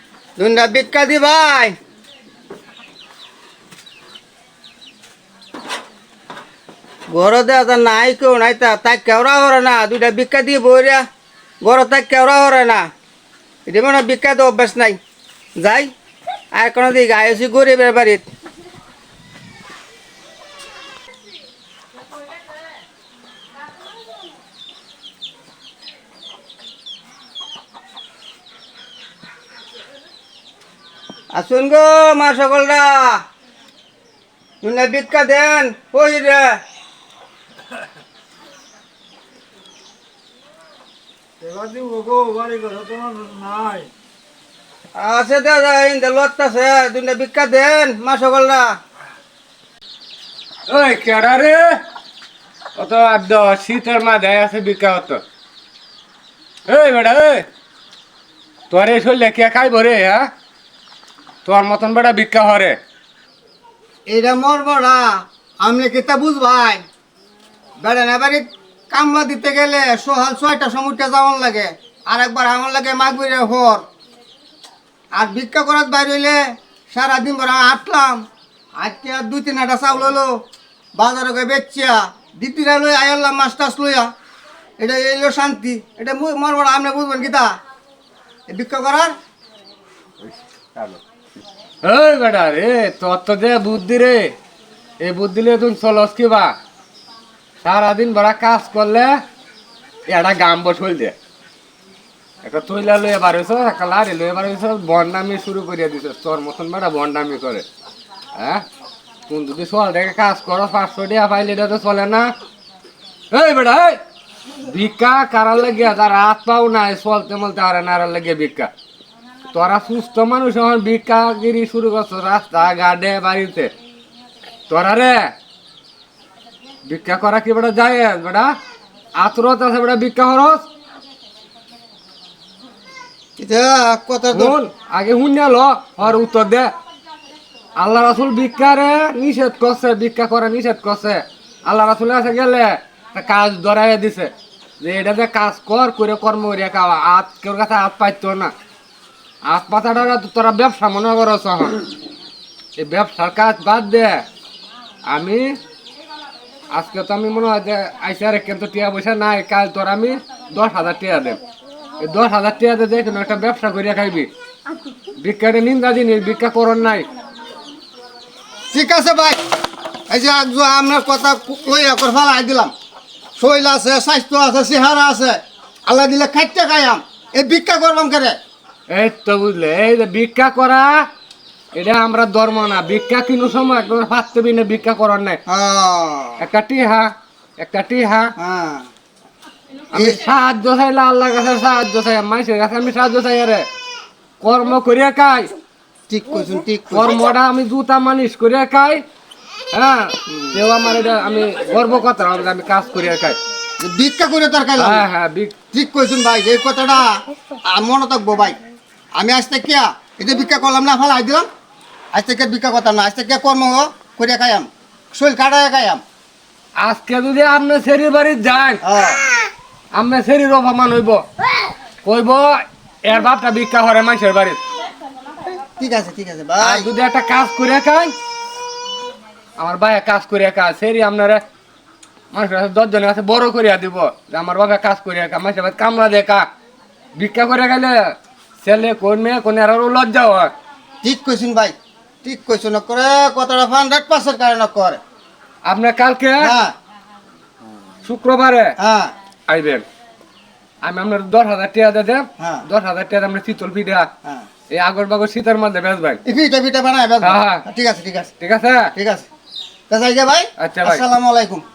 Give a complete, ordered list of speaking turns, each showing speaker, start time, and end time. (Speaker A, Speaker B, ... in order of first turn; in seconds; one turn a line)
Speaker A: 0.4-1.7
Speaker A: 7.1-11.0
Speaker A: 11.6-12.8
Speaker A: 13.7-15.0
Speaker A: 15.6-15.9
Speaker A: 16.5-18.2
Speaker A: 31.3-33.2
Speaker A: 34.6-36.6
Speaker B: 41.4-43.9
Speaker A: 45.0-48.7
Speaker C: 50.7-51.8
Speaker C: 52.8-55.2
Speaker C: 56.7-57.5
Speaker C: 58.7-60.3
Speaker C: 61.4-62.8
Speaker A: 64.1-66.8
Speaker A: 67.8-73.8
Speaker A: 75.1-78.2
Speaker A: 78.8-80.4
Speaker A: 80.9-84.1
Speaker A: 84.8-87.5
Speaker A: 88.5-89.2
Speaker C: 91.8-94.3
Speaker C: 95.0-96.5
Speaker C: 97.6-99.1
Speaker C: 100.1-101.1
Speaker C: 102.4-107.6
Speaker C: 108.4-108.6
Speaker C: 109.3-112.3
Speaker C: 113.3-114.0
Speaker C: 114.6-118.7
Speaker C: 119.5-123.7
Speaker C: 124.7-125.3
Speaker C: 126.8-128.5
Speaker C: 129.2-130.6
Speaker A: 133.4-134.6
Speaker C: 134.3-136.7
Speaker C: 137.8-148.5
Speaker C: 149.5-151.8
Speaker C: 152.8-154.2
Speaker C: 155.1-155.5
Speaker C: 156.7-161.4
Speaker C: 162.0-164.3
Speaker C: 165.2-167.1
Speaker A: 168.7-169.4
Speaker A: 170.1-172.7
Speaker A: 173.4-178.4
Speaker C: 178.9-181.0
Speaker C: 181.7-185.4
Speaker A: 185.5-186.4
Speaker C: 186.4-188.3
Speaker A: 188.4-188.9
Speaker C: 189.9-193.6
Speaker A: 189.9-190.2
Speaker C: 194.4-195.5
Speaker A: 196.1-197.3
Speaker C: 196.9-199.0
Speaker C: 199.7-203.4
Speaker A: 200.3-200.6
Speaker A: 203.8-205.0
Speaker C: 204.8-205.5
Speaker A: 205.7-208.6
Speaker A: 209.2-211.5
Speaker A: 212.1-216.0
Speaker C: 216.8-218.8
Speaker A: 218.8-219.2
Speaker C: 219.9-221.2
Speaker C: 222.0-224.6
Speaker A: 225.4-226.9
Speaker C: 226.6-228.1
Speaker C: 229.6-231.4
Speaker C: 232.3-236.4
Speaker C: 237.2-238.0
Speaker C: 238.6-240.5
Speaker A: 241.0-245.0
Speaker C: 245.7-246.5
Speaker A: 246.4-246.7
Speaker C: 248.0-248.7
Speaker A: 248.8-249.1
Speaker C: 249.5-249.8
Speaker C: 250.8-254.1
Speaker A: 252.4-252.6
Speaker C: 254.7-256.2
Speaker A: 256.2-258.3
Speaker C: 257.2-257.6
Speaker C: 258.4-258.9
Speaker A: 258.9-259.2
Speaker A: 259.9-261.6
Speaker C: 260.6-261.0